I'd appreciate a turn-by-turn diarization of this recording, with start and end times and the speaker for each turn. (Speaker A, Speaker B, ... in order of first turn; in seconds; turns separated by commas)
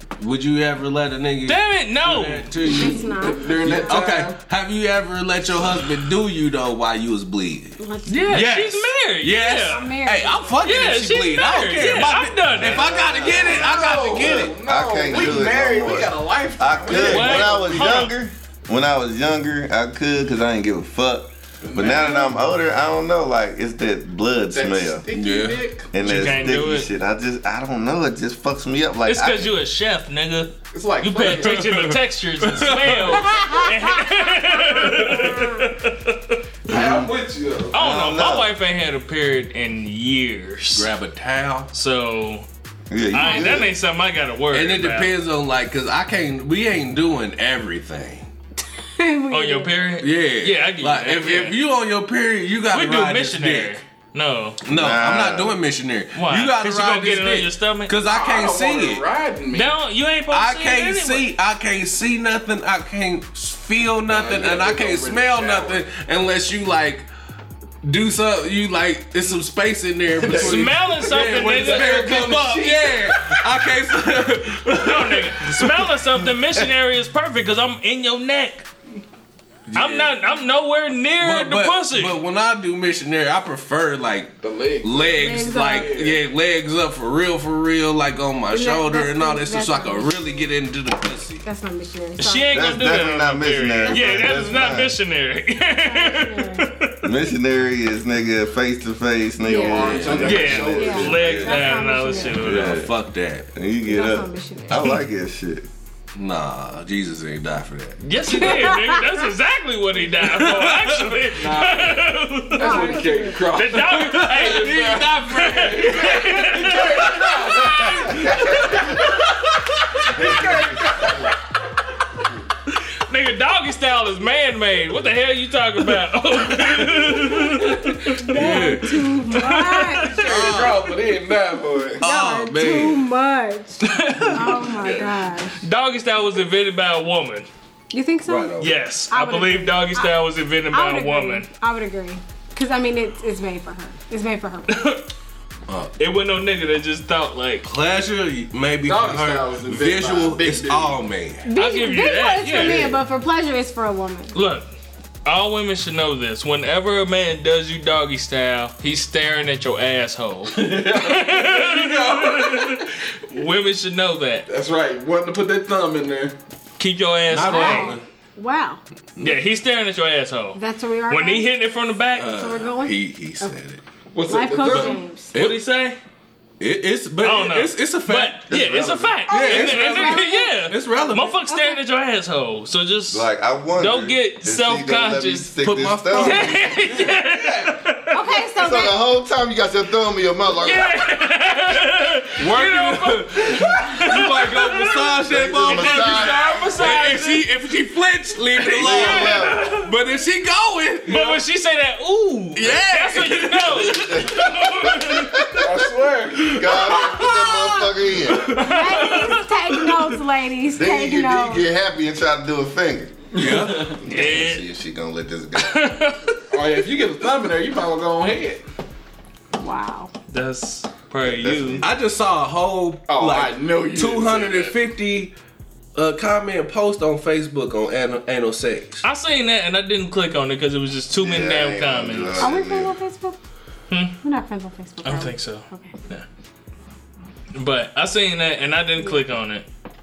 Speaker A: 0.2-14.6, Speaker B: 1.4-2.5, Speaker C: 2.6-3.7, Speaker D: 2.9-4.4, Speaker C: 7.8-8.4, Speaker B: 8.1-9.9, Speaker C: 9.6-10.7, Speaker B: 10.6-12.9, Speaker E: 12.7-25.1, Speaker D: 12.8-17.9, Speaker A: 15.1-15.5, Speaker B: 16.9-18.1, Speaker D: 21.6-22.3, Speaker D: 24.5-26.1, Speaker A: 25.1-25.6, Speaker E: 25.9-29.5, Speaker B: 26.0-26.9, Speaker B: 29.1-36.4, Speaker D: 30.7-31.7, Speaker A: 31.2-33.5, Speaker C: 33.1-35.7, Speaker D: 36.6-37.8, Speaker E: 36.7-37.1, Speaker E: 37.7-38.5, Speaker B: 37.7-40.9, Speaker A: 40.7-41.7, Speaker B: 41.7-42.5, Speaker E: 42.9-43.7, Speaker B: 43.1-45.1, Speaker A: 44.5-48.3, Speaker C: 49.0-49.7, Speaker B: 49.3-51.6, Speaker A: 50.0-53.8, Speaker B: 52.7-54.6, Speaker A: 54.6-59.0, Speaker E: 54.6-55.6, Speaker B: 56.1-57.9, Speaker D: 58.0-59.7, Speaker B: 59.5-61.3, Speaker A: 60.3-67.1, Speaker D: 64.0-65.8, Speaker A: 67.8-76.0, Speaker D: 70.2-73.3, Speaker B: 70.2-72.1, Speaker B: 74.7-78.7, Speaker A: 79.7-80.1, Speaker B: 79.7-82.2, Speaker A: 81.2-91.4, Speaker D: 84.4-86.2, Speaker C: 85.1-86.0, Speaker C: 88.5-90.2, Speaker C: 91.4-92.5, Speaker B: 92.2-97.1, Speaker E: 92.5-94.9, Speaker C: 93.8-94.7, Speaker C: 95.7-96.7, Speaker E: 97.0-101.7, Speaker C: 99.4-100.0, Speaker D: 99.5-101.3, Speaker A: 99.8-100.7, Speaker B: 100.2-102.8, Speaker C: 100.7-102.4, Speaker A: 102.3-103.5, Speaker E: 102.4-102.9, Speaker E: 103.5-105.7, Speaker C: 103.8-104.9, Speaker A: 106.1-108.5, Speaker B: 108.0-113.0, Speaker C: 108.3-109.2, Speaker A: 110.2-111.7, Speaker D: 111.4-119.1, Speaker C: 112.6-113.5, Speaker B: 113.5-118.8, Speaker A: 113.8-119.2, Speaker D: 120.1-121.3, Speaker E: 120.2-120.8, Speaker B: 123.1-130.5, Speaker A: 126.5-127.8, Speaker C: 128.0-130.3, Speaker A: 128.3-129.0, Speaker D: 130.1-132.0, Speaker A: 130.2-130.9, Speaker A: 132.0-133.1, Speaker C: 132.0-135.6, Speaker B: 133.8-134.8, Speaker D: 134.8-135.1, Speaker B: 135.6-137.5, Speaker C: 137.9-140.2, Speaker A: 138.2-138.8, Speaker B: 138.6-141.4, Speaker C: 140.7-144.8, Speaker B: 144.7-145.1, Speaker A: 145.7-145.9, Speaker B: 146.0-147.7, Speaker A: 147.6-151.4, Speaker D: 148.8-151.0, Speaker C: 151.4-154.3, Speaker B: 151.5-152.8, Speaker A: 152.6-153.0, Speaker B: 154.3-154.7, Speaker B: 155.2-164.4, Speaker D: 160.5-162.9, Speaker D: 164.5-166.3, Speaker B: 166.8-168.0, Speaker A: 167.3-168.0, Speaker C: 167.4-168.8, Speaker B: 169.2-170.6, Speaker C: 170.5-171.5, Speaker B: 171.1-172.4, Speaker A: 172.2-173.8, Speaker C: 172.2-173.5, Speaker D: 174.1-175.0, Speaker C: 174.2-175.3, Speaker A: 174.7-175.6, Speaker B: 175.3-176.0, Speaker A: 176.6-178.4, Speaker B: 177.2-185.5, Speaker E: 178.5-179.2, Speaker A: 179.3-181.4, Speaker C: 179.3-180.6, Speaker C: 181.5-181.8, Speaker E: 183.1-186.6, Speaker A: 185.6-186.8, Speaker B: 186.1-188.3, Speaker D: 186.7-187.8, Speaker C: 188.1-188.9, Speaker E: 188.6-190.9, Speaker B: 190.6-197.4, Speaker A: 192.4-201.4, Speaker E: 195.3-196.7, Speaker B: 198.6-199.9, Speaker E: 198.7-199.7, Speaker B: 201.1-205.5, Speaker A: 202.5-205.0, Speaker E: 203.8-205.8, Speaker D: 205.6-206.6, Speaker E: 206.4-208.6, Speaker A: 206.5-206.8, Speaker C: 206.8-211.7, Speaker B: 208.4-209.5, Speaker A: 208.5-209.2, Speaker E: 210.8-213.2, Speaker D: 213.3-214.0, Speaker A: 213.3-213.9, Speaker B: 213.5-214.6, Speaker E: 213.9-215.8, Speaker B: 215.6-216.4, Speaker D: 216.5-218.6, Speaker C: 219.6-220.1, Speaker B: 220.3-221.8, Speaker E: 221.2-221.9, Speaker A: 221.8-225.3, Speaker D: 223.1-224.8, Speaker A: 225.9-229.0, Speaker B: 229.0-232.5, Speaker E: 231.1-233.0, Speaker C: 232.4-233.4, Speaker B: 233.9-234.2, Speaker C: 234.2-235.9, Speaker B: 235.0-236.2, Speaker B: 237.5-239.6